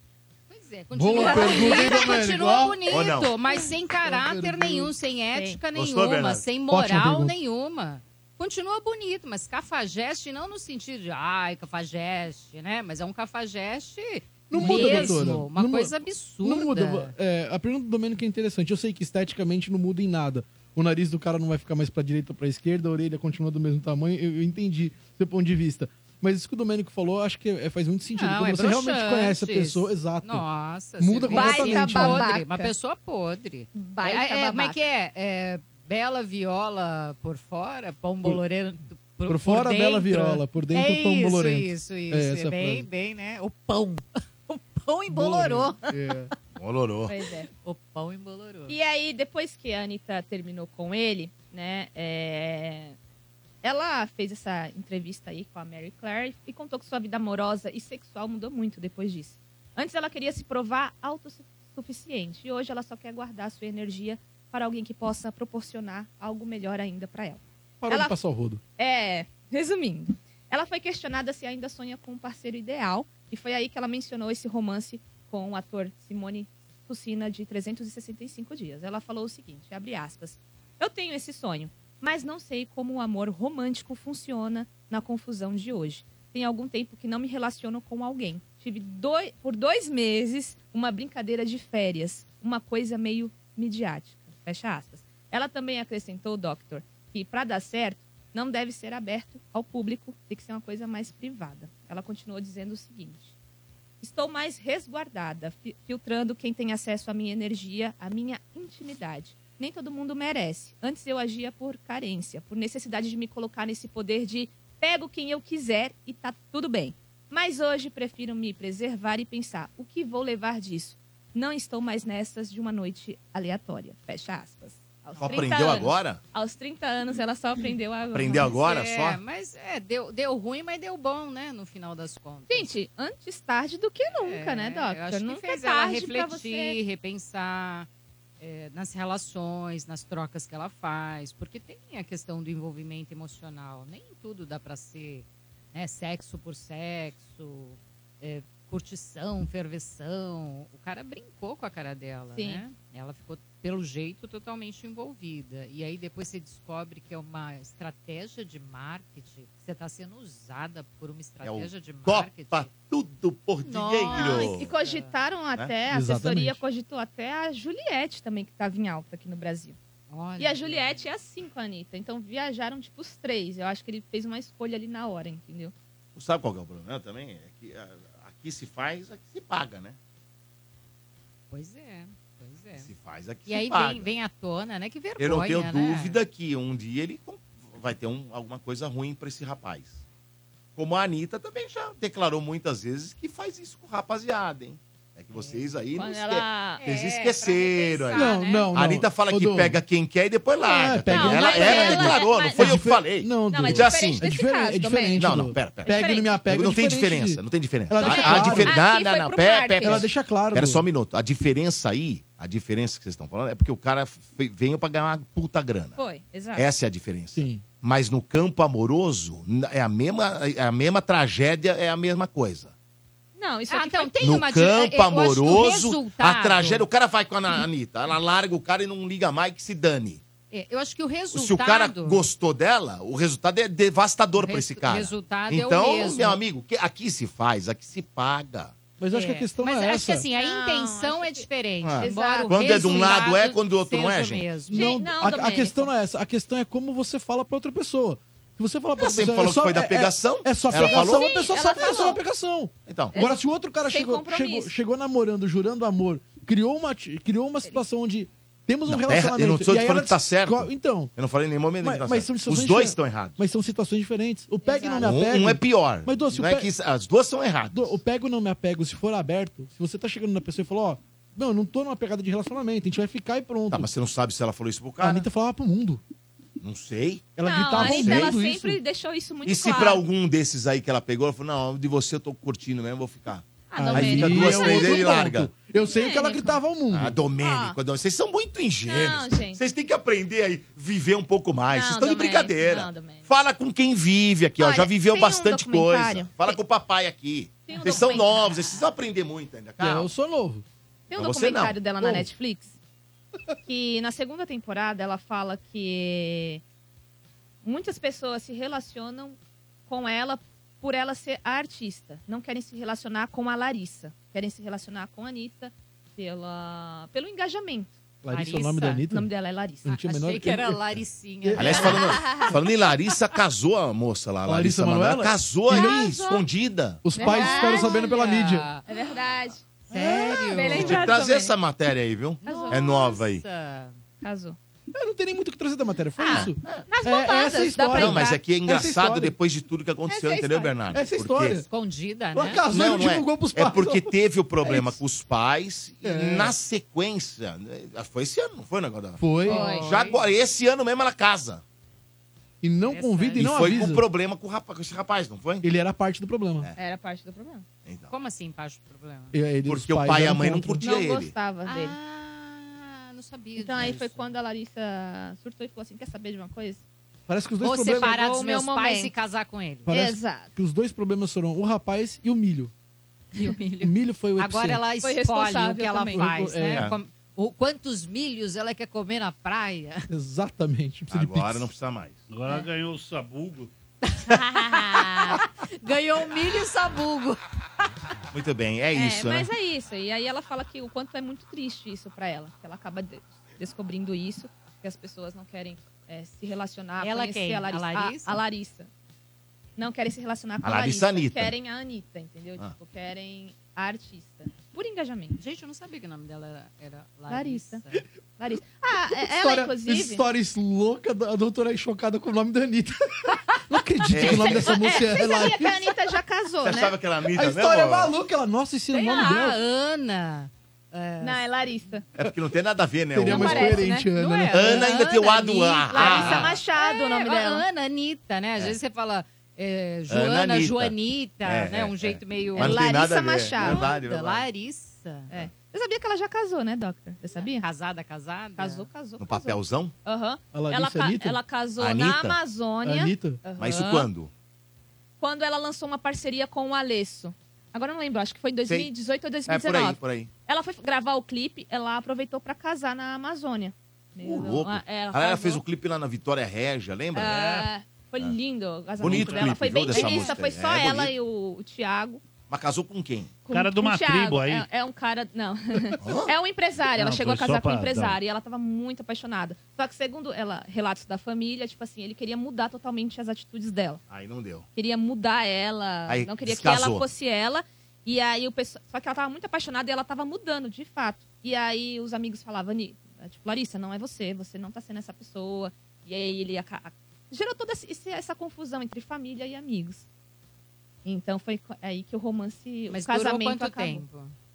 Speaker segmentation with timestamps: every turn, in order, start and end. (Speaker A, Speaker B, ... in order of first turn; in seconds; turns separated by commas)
Speaker A: 0.5-17.1, Speaker B: 0.9-2.9, Speaker C: 1.1-2.0, Speaker D: 2.9-3.3, Speaker B: 4.0-4.9, Speaker D: 5.7-6.4, Speaker B: 6.7-7.3, Speaker B: 14.5-30.4, Speaker C: 14.6-15.1, Speaker A: 28.2-45.9, Speaker B: 31.0-32.3, Speaker C: 31.3-32.7, Speaker C: 33.7-34.8, Speaker B: 39.3-42.9, Speaker B: 45.1-46.3, Speaker D: 46.6-47.1, Speaker C: 47.1-47.5, Speaker A: 47.6-48.8, Speaker C: 48.7-53.0, Speaker C: 53.6-68.2, Speaker B: 67.8-68.6, Speaker C: 68.8-103.3, Speaker C: 104.0-128.5, Speaker D: 125.2-126.2, Speaker D: 128.1-129.2, Speaker A: 128.4-132.7, Speaker C: 132.5-136.8, Speaker A: 134.2-137.9, Speaker A: 138.4-162.7, Speaker C: 152.3-152.6, Speaker D: 161.4-164.7, Speaker A: 163.6-165.1, Speaker C: 164.1-169.8, Speaker B: 165.9-166.6, Speaker A: 170.1-171.0, Speaker C: 170.4-175.7, Speaker D: 176.2-180.0, Speaker A: 181.5-182.9, Speaker D: 182.8-184.1, Speaker A: 183.5-186.2, Speaker D: 185.2-190.0, Speaker D: 190.8-204.2, Speaker A: 195.3-195.7, Speaker C: 195.9-197.1, Speaker A: 196.8-198.7, Speaker B: 198.2-199.8, Speaker B: 200.6-208.8, Speaker C: 201.1-202.8, Speaker C: 203.4-205.3, Speaker D: 205.2-216.0, Speaker C: 205.8-206.4, Speaker C: 208.0-210.1, Speaker B: 209.8-210.9, Speaker C: 216.0-216.7, Speaker D: 216.6-222.7, Speaker B: 217.3-217.6, Speaker C: 223.4-224.5, Speaker A: 223.7-226.9, Speaker D: 224.2-230.2, Speaker A: 230.5-232.2, Speaker D: 231.3-238.7, Speaker A: 234.4-236.4, Speaker B: 239.0-240.2, Speaker A: 239.1-244.9, Speaker C: 240.3-241.4, Speaker D: 241.8-244.6, Speaker C: 242.0-243.1, Speaker C: 244.7-245.9, Speaker B: 244.7-261.1, Speaker D: 249.0-251.4, Speaker C: 250.8-252.2, Speaker D: 252.9-253.2, Speaker C: 253.9-254.7, Speaker D: 258.9-263.4, Speaker B: 261.8-266.7, Speaker C: 264.6-265.1, Speaker D: 265.0-268.0, Speaker B: 267.7-273.9, Speaker D: 273.7-275.3, Speaker B: 275.0-276.0, Speaker D: 276.6-278.3, Speaker B: 277.4-278.8, Speaker C: 277.4-280.0, Speaker D: 279.4-285.5, Speaker C: 283.7-285.2, Speaker B: 283.8-287.2, Speaker C: 285.9-286.6, Speaker D: 286.9-300.1, Speaker C: 287.4-287.8, Speaker C: 288.9-289.6, Speaker C: 291.7-293.3, Speaker C: 294.6-296.6, Speaker C: 297.7-298.8, Speaker A: 297.8-298.6, Speaker B: 299.8-300.6, Speaker C: 301.1-302.8, Speaker D: 301.2-301.8, Speaker B: 302.0-302.3, Speaker C: 303.7-306.6, Speaker C: 307.6-318.0, Speaker B: 318.2-319.3, Speaker A: 318.3-319.0, Speaker C: 319.1-319.9, Speaker B: 319.8-320.8, Speaker A: 319.9-322.6, Speaker B: 321.4-322.0, Speaker D: 321.6-327.1, Speaker C: 322.0-322.5, Speaker B: 324.5-326.0, Speaker C: 325.7-326.4, Speaker B: 327.0-328.7, Speaker C: 327.1-328.1, Speaker A: 327.2-329.0, Speaker C: 328.9-329.7, Speaker A: 329.9-331.1, Speaker B: 329.9-330.4, Speaker C: 330.4-331.6, Speaker D: 330.7-333.4, Speaker A: 332.4-334.0, Speaker C: 332.4-333.2, Speaker C: 334.2-334.6, Speaker B: 334.9-339.4, Speaker C: 336.2-338.4, Speaker D: 336.3-336.8, Speaker D: 337.9-341.6, Speaker C: 340.1-340.8, Speaker B: 340.9-341.7, Speaker A: 341.7-342.6, Speaker B: 342.4-344.1, Speaker D: 342.7-349.3, Speaker B: 344.6-345.0, Speaker B: 346.0-346.6, Speaker B: 349.2-349.7, Speaker A: 349.4-350.2, Speaker C: 349.5-350.0, Speaker D: 349.8-351.6, Speaker B: 352.6-354.0, Speaker A: 352.9-353.9, Speaker D: 353.4-355.7, Speaker B: 355.6-356.7, Speaker C: 356.8-357.6, Speaker D: 357.9-358.1, Speaker A: 358.1-359.4, Speaker B: 359.3-360.8, Speaker D: 359.7-361.3, Speaker C: 360.8-362.0, Speaker A: 361.7-364.4, Speaker C: 363.6-366.8, Speaker B: 367.3-368.2, Speaker A: 367.6-369.9, Speaker C: 367.9-369.1, Speaker C: 369.9-370.5, Speaker B: 369.9-372.7, Speaker A: 373.4-380.1, Speaker B: 373.8-374.8, Speaker C: 375.0-376.3, Speaker B: 376.1-376.9, Speaker D: 376.7-377.0, Speaker B: 380.1-381.7, Speaker D: 381.1-382.2, Speaker E: 382.3-383.7, Speaker A: 384.1-387.4, Speaker D: 388.3-389.5, Speaker C: 388.9-398.9, Speaker A: 397.0-398.4, Speaker C: 399.8-405.4, Speaker D: 400.6-401.5, Speaker A: 405.4-408.0, Speaker C: 407.3-407.8, Speaker C: 408.4-410.2, Speaker B: 409.2-415.9, Speaker D: 414.1-414.7, Speaker C: 414.6-416.9, Speaker D: 416.6-418.1, Speaker B: 417.3-419.6, Speaker A: 418.9-421.5, Speaker C: 421.2-422.1, Speaker D: 422.2-423.8, Speaker B: 423.1-424.9, Speaker C: 423.2-424.1, Speaker A: 424.1-432.9, Speaker D: 424.5-426.5, Speaker C: 425.9-427.6, Speaker D: 430.1-434.4, Speaker C: 432.6-433.9, Speaker A: 433.5-435.3, Speaker C: 435.3-437.7, Speaker A: 437.4-438.9, Speaker C: 438.6-444.1, Speaker D: 439.2-439.9, Speaker B: 440.5-441.4, Speaker D: 441.8-442.4, Speaker B: 442.9-443.4, Speaker D: 443.6-444.3, Speaker C: 445.2-455.6, Speaker D: 448.7-448.9, Speaker D: 449.5-450.3, Speaker D: 454.2-457.5, Speaker C: 457.1-462.2, Speaker E: 457.3-457.7, Speaker D: 459.0-461.1, Speaker E: 459.0-460.3, Speaker D: 462.5-463.4, Speaker C: 463.4-474.0, Speaker E: 463.5-464.7, Speaker D: 466.0-466.3, Speaker E: 466.9-468.2, Speaker D: 474.1-474.7, Speaker C: 474.8-490.1, Speaker D: 476.1-477.1, Speaker C: 491.1-494.0, Speaker A: 492.9-494.4